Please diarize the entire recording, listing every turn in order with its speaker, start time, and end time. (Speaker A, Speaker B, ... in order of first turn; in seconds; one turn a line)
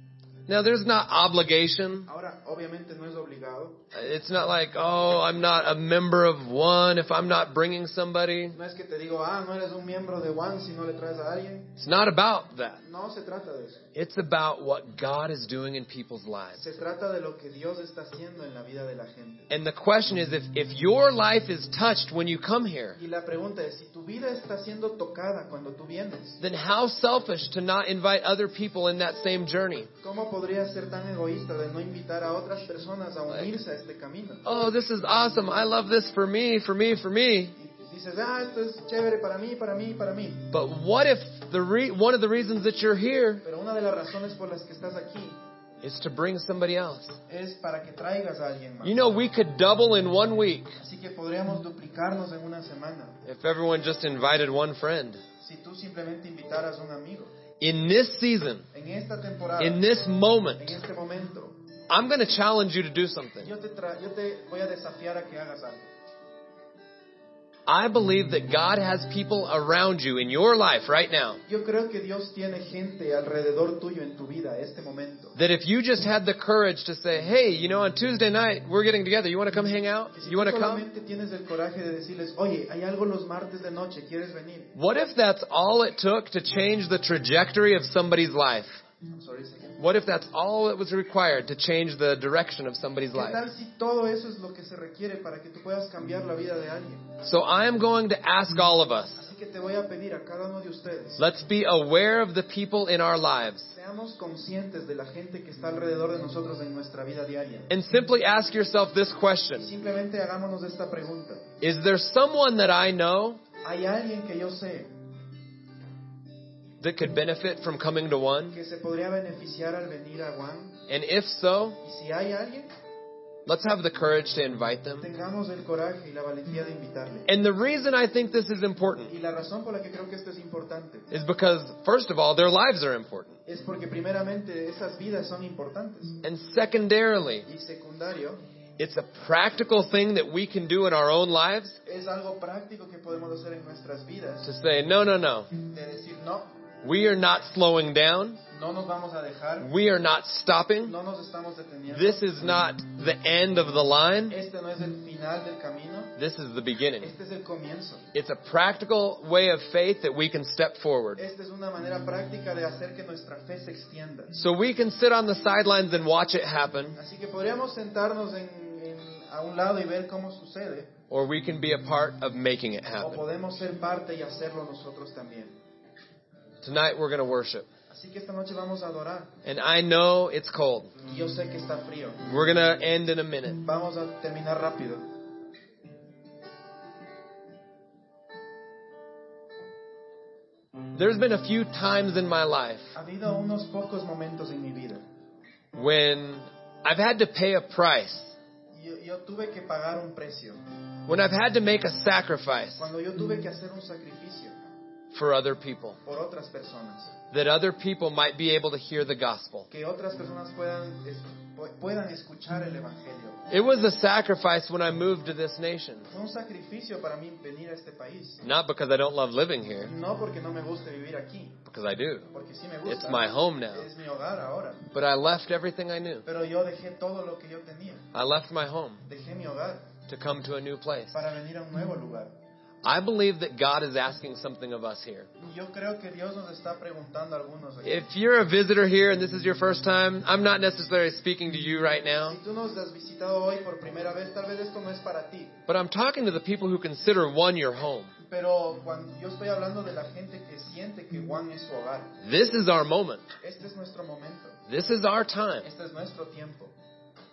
Speaker A: 0.5-2.1
Speaker B: 2.1-3.9
Speaker A: 3.9-8.6
Speaker B: 8.5-11.8
Speaker A: 11.8-12.8
Speaker B: 12.8-13.8
Speaker A: 13.9-16.6
Speaker B: 16.5-19.5
Speaker A: 19.5-23.0
Speaker B: 23.0-26.4
Speaker A: 26.4-29.9
Speaker B: 30.0-34.5
Speaker A: 34.4-37.5
Speaker B: 37.6-40.5
Speaker A: 40.5-43.4
Speaker B: 43.4-45.4
Speaker A: 45.8-47.2
Speaker B: 47.3-49.0
Speaker A: 48.8-50.8
Speaker B: 50.8-53.2
Speaker A: 53.2-55.2
Speaker B: 55.4-57.3
Speaker A: 57.6-58.6
Speaker B: 58.7-59.9
Speaker A: 59.6-60.8
Speaker B: 60.6-61.6
Speaker A: 61.9-63.5
Speaker B: 63.4-65.9
Speaker A: 67.7-71.4
Speaker B: 71.5-75.3
Speaker A: 75.3-80.8
Speaker B: 80.1-84.7
Speaker A: 84.7-88.8
Speaker B: 89.1-89.8
Speaker A: 89.8-93.4
Speaker B: 93.1-97.1
Speaker A: 97.2-99.2
Speaker B: 99.2-101.2
Speaker A: 101.2-103.7
Speaker B: 103.7-107.7
Speaker A: 107.7-109.7
Speaker B: 109.5-111.5
Speaker A: 111.6-113.4
Speaker B: 113.6-114.9
Speaker A: 116.8-118.6
Speaker B: 118.5-120.8
Speaker A: 120.9-121.8
Speaker B: 121.8-122.7
Speaker A: 123.5-125.0
Speaker B: 125.0-127.2
Speaker A: 127.3-129.1
Speaker B: 129.1-131.1
Speaker A: 131.1-133.4
Speaker B: 133.4-136.2
Speaker A: 136.2-137.5
Speaker B: 137.5-138.4
Speaker A: 138.8-141.8
Speaker B: 141.8-144.5
Speaker A: 144.4-145.5
Speaker B: 145.6-146.6
Speaker A: 146.8-148.4
Speaker B: 148.5-149.7
Speaker A: 149.6-150.9
Speaker B: 150.8-152.2
Speaker A: 151.9-154.3
Speaker B: 154.3-156.1
Speaker A: 156.2-157.2
Speaker B: 157.0-158.1
Speaker A: 158.1-161.2
Speaker B: 161.2-164.4
Speaker A: 164.3-167.0
Speaker B: 167.0-170.9
Speaker A: 171.1-173.2
Speaker B: 173.0-175.5
Speaker A: 176.6-177.7
Speaker B: 177.9-179.4
Speaker A: 179.4-180.9
Speaker B: 181.0-182.2
Speaker A: 182.2-183.6
Speaker B: 183.6-185.1
Speaker A: 190.9-192.9
Speaker B: 192.9-195.0
Speaker A: 195.7-198.4
Speaker B: 198.7-200.6
Speaker A: 201.1-202.9
Speaker B: 202.8-204.6
Speaker A: 205.1-206.0
Speaker B: 206.0-207.2
Speaker A: 207.3-209.7
Speaker B: 209.7-213.5
Speaker A: 213.5-216.1
Speaker B: 216.1-218.4
Speaker A: 218.4-219.9
Speaker B: 219.8-221.6
Speaker A: 221.6-222.3
Speaker B: 222.3-224.9
Speaker A: 222.8-223.9
Speaker A: 224.9-226.2
Speaker B: 226.2-228.1
Speaker A: 228.1-229.0
Speaker B: 229.0-229.9
Speaker A: 230.1-231.2
Speaker B: 231.1-232.3
Speaker A: 232.8-235.3
Speaker B: 235.4-238.1
Speaker A: 237.8-242.4
Speaker B: 242.3-245.6
Speaker A: 245.7-248.1
Speaker B: 248.2-252.2
Speaker A: 252.2-253.3
Speaker B: 253.4-254.6
Speaker A: 254.7-255.7
Speaker B: 255.6-256.8